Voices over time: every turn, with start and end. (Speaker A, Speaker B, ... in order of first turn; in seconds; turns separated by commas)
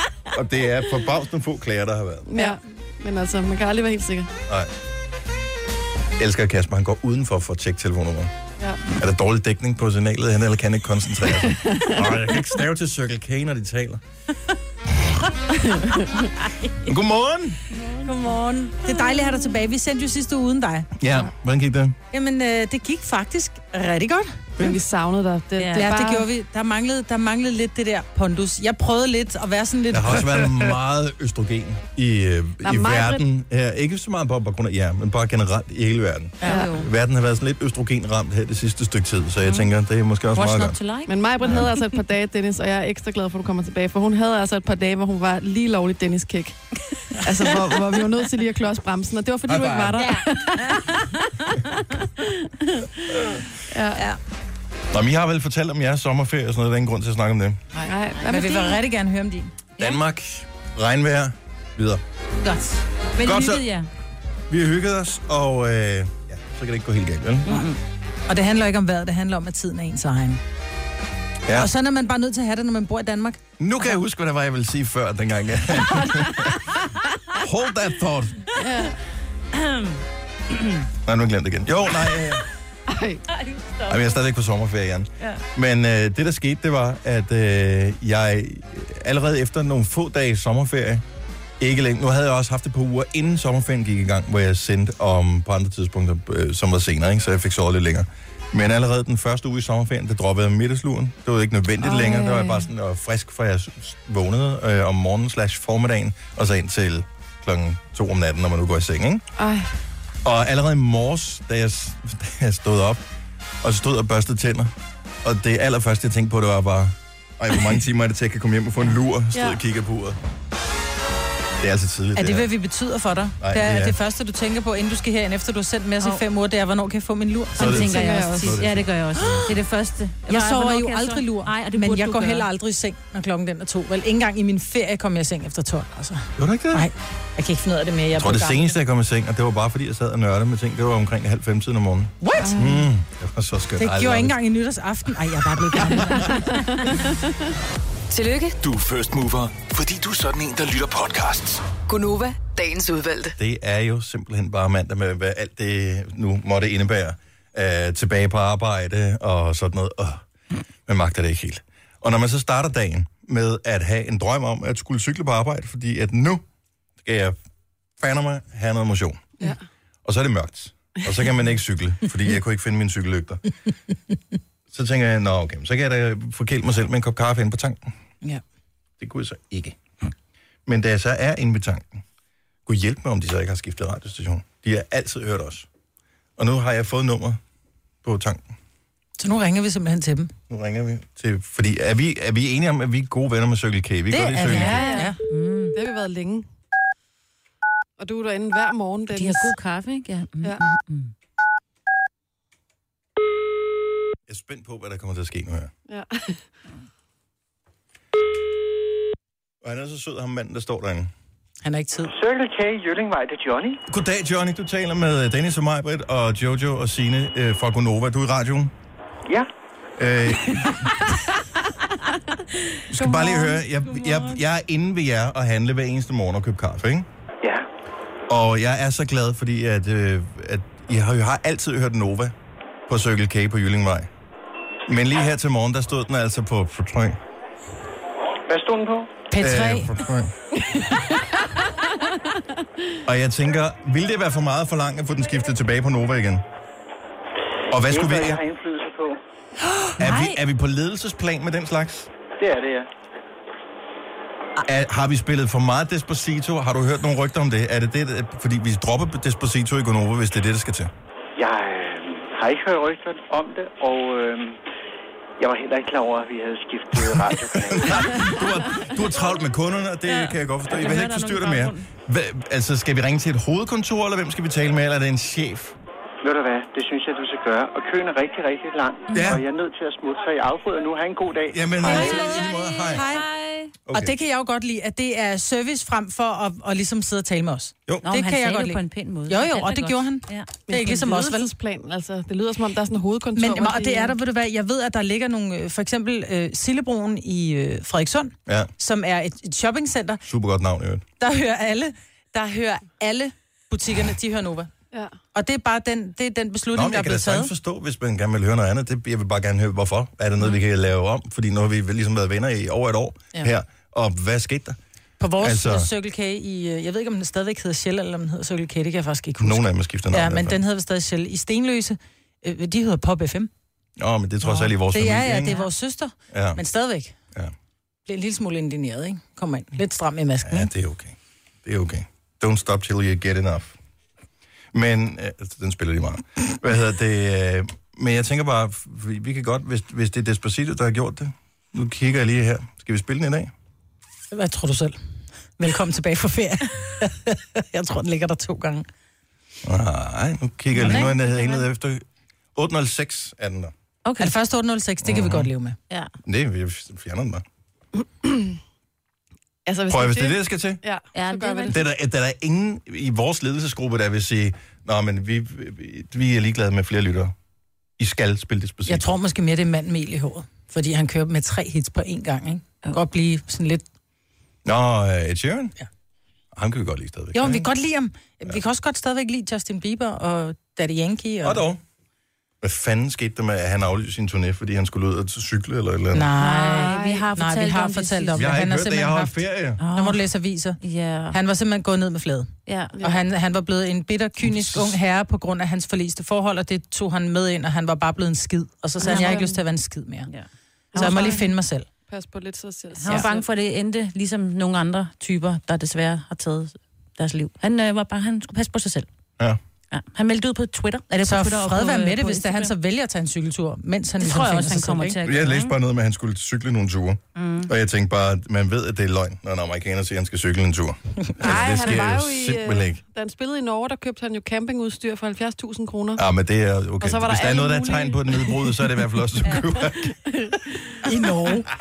Speaker A: 0.3-2.3, Speaker B: 2.3-4.3, Speaker A: 6.2-8.3, Speaker A: 8.9-14.0, Speaker B: 11.4-12.2, Speaker B: 15.7-16.2, Speaker A: 16.8-17.6, Speaker C: 17.7-18.0, Speaker D: 18.0-20.9, Speaker C: 18.9-19.4, Speaker A: 21.0-22.0, Speaker D: 22.1-24.6, Speaker B: 24.6-26.3, Speaker C: 25.6-25.9, Speaker D: 25.8-30.5, Speaker A: 29.9-40.8, Speaker B: 32.6-33.2, Speaker C: 36.4-36.9, Speaker C: 39.4-39.7, Speaker C: 40.3-41.7, Speaker B: 41.1-50.9, Speaker A: 49.5-50.1, Speaker B: 53.7-54.0, Speaker A: 54.9-57.6, Speaker B: 57.7-58.8, Speaker D: 58.2-59.5, Speaker A: 59.8-62.0, Speaker C: 62.4-63.9, Speaker A: 63.2-63.6, Speaker A: 64.5-67.7, Speaker C: 67.4-67.8, Speaker D: 68.3-70.4, Speaker A: 71.5-71.7, Speaker D: 71.5-73.4, Speaker A: 73.6-76.6, Speaker A: 77.3-78.5, Speaker B: 78.5-78.9, Speaker C: 79.5-80.0, Speaker C: 80.5-80.8, Speaker A: 81.0-82.5, Speaker B: 82.9-83.2, Speaker C: 83.3-84.2, Speaker A: 83.9-91.0, Speaker A: 91.6-109.2, Speaker B: 101.8-102.7, Speaker B: 109.4-109.7, Speaker A: 110.2-113.0, Speaker A: 113.6-114.7, Speaker A: 115.2-120.2, Speaker B: 119.3-119.6, Speaker A: 121.6-122.5, Speaker D: 122.2-128.5, Speaker A: 123.4-124.0, Speaker A: 127.6-129.4, Speaker C: 127.6-132.4, Speaker B: 127.7-128.6, Speaker D: 130.3-138.7, Speaker A: 136.4-136.9, Speaker A: 138.1-144.3, Speaker D: 142.2-142.8, Speaker B: 142.4-142.7, Speaker D: 143.8-146.7, Speaker B: 145.9-147.5, Speaker E: 148.1-148.6, Speaker F: 148.6-151.7, Speaker E: 151.8-153.3, Speaker A: 153.4-160.2, Speaker A: 160.9-166.4, Speaker A: 167.0-167.3, Speaker A: 168.0-169.3, Speaker A: 170.0-173.4, Speaker A: 174.7-177.9, Speaker A: 179.0-179.8, Speaker A: 180.7-182.0, Speaker A: 182.7-185.7, Speaker A: 186.4-187.4, Speaker A: 188.0-188.5, Speaker D: 189.2-190.3, Speaker A: 190.5-194.9, Speaker D: 194.1-195.2, Speaker B: 194.5-195.2, Speaker C: 194.5-195.8, Speaker B: 195.7-196.5, Speaker B: 198.0-199.5, Speaker C: 199.1-201.1, Speaker A: 204.3-205.7, Speaker B: 205.9-206.4, Speaker A: 209.6-211.1, Speaker D: 211.6-212.1, Speaker G: 212.1-213.8, Speaker A: 213.9-218.7, Speaker A: 220.0-220.9, Speaker A: 222.9-227.1, Speaker A: 228.3-232.3, Speaker A: 232.9-234.1, Speaker A: 234.9-237.2, Speaker G: 238.5-239.1, Speaker D: 239.3-239.9, Speaker A: 239.4-240.3, Speaker B: 240.9-241.4, Speaker B: 242.0-242.9, Speaker A: 243.0-246.4, Speaker A: 247.7-248.4, Speaker G: 247.7-249.2, Speaker C: 250.0-250.4, Speaker A: 250.0-252.1, Speaker G: 252.4-252.9, Speaker A: 254.6-260.9, Speaker G: 261.4-264.6, Speaker G: 265.4-268.4, Speaker A: 266.9-275.7, Speaker C: 270.1-271.9, Speaker G: 276.2-282.2, Speaker A: 279.1-279.4, Speaker A: 281.5-283.0, Speaker C: 281.8-283.7, Speaker D: 282.9-283.2, Speaker A: 283.9-284.1, Speaker D: 283.9-291.5, Speaker C: 288.0-290.5, Speaker B: 290.7-294.1, Speaker D: 293.4-300.2, Speaker A: 300.3-301.0, Speaker D: 301.2-304.7, Speaker D: 305.3-307.5, Speaker A: 306.7-314.8, Speaker D: 315.2-323.5, Speaker A: 315.4-315.9, Speaker A: 319.4-320.6, Speaker A: 324.0-325.6, Speaker D: 324.4-327.1, Speaker A: 326.3-326.6, Speaker D: 328.1-330.7, Speaker A: 330.4-333.7, Speaker A: 334.7-343.5, Speaker D: 344.3-345.0, Speaker D: 345.6-348.9, Speaker A: 349.6-353.7, Speaker D: 350.8-351.1, Speaker C: 350.9-351.6, Speaker C: 354.0-354.3, Speaker D: 354.2-355.8, Speaker A: 355.0-355.5, Speaker A: 356.2-357.4, Speaker B: 358.2-358.6, Speaker B: 359.6-361.8, Speaker A: 359.9-360.8, Speaker C: 361.1-361.8, Speaker A: 361.7-367.3, Speaker A: 368.0-369.1, Speaker D: 368.9-373.8, Speaker A: 374.6-375.7, Speaker A: 376.5-377.7, Speaker D: 377.3-381.6, Speaker A: 381.4-381.8, Speaker A: 382.6-386.3, Speaker D: 386.1-390.8, Speaker C: 386.4-388.5, Speaker B: 386.7-387.2, Speaker A: 388.3-389.8, Speaker C: 389.8-390.2, Speaker C: 390.8-391.4, Speaker D: 391.3-400.3, Speaker C: 392.7-392.9, Speaker B: 392.9-393.2, Speaker A: 394.4-395.0, Speaker B: 399.0-399.5, Speaker C: 399.0-399.5, Speaker C: 400.3-401.4, Speaker B: 400.9-401.5, Speaker D: 400.9-401.9, Speaker B: 402.1-403.4, Speaker C: 403.0-409.1, Speaker C: 409.9-412.7, Speaker D: 411.2-415.2, Speaker C: 414.2-415.7, Speaker A: 415.2-423.0, Speaker C: 417.4-417.7, Speaker B: 421.4-426.2, Speaker A: 426.1-430.1, Speaker B: 427.0-428.8, Speaker B: 429.5-431.0, Speaker D: 431.0-431.7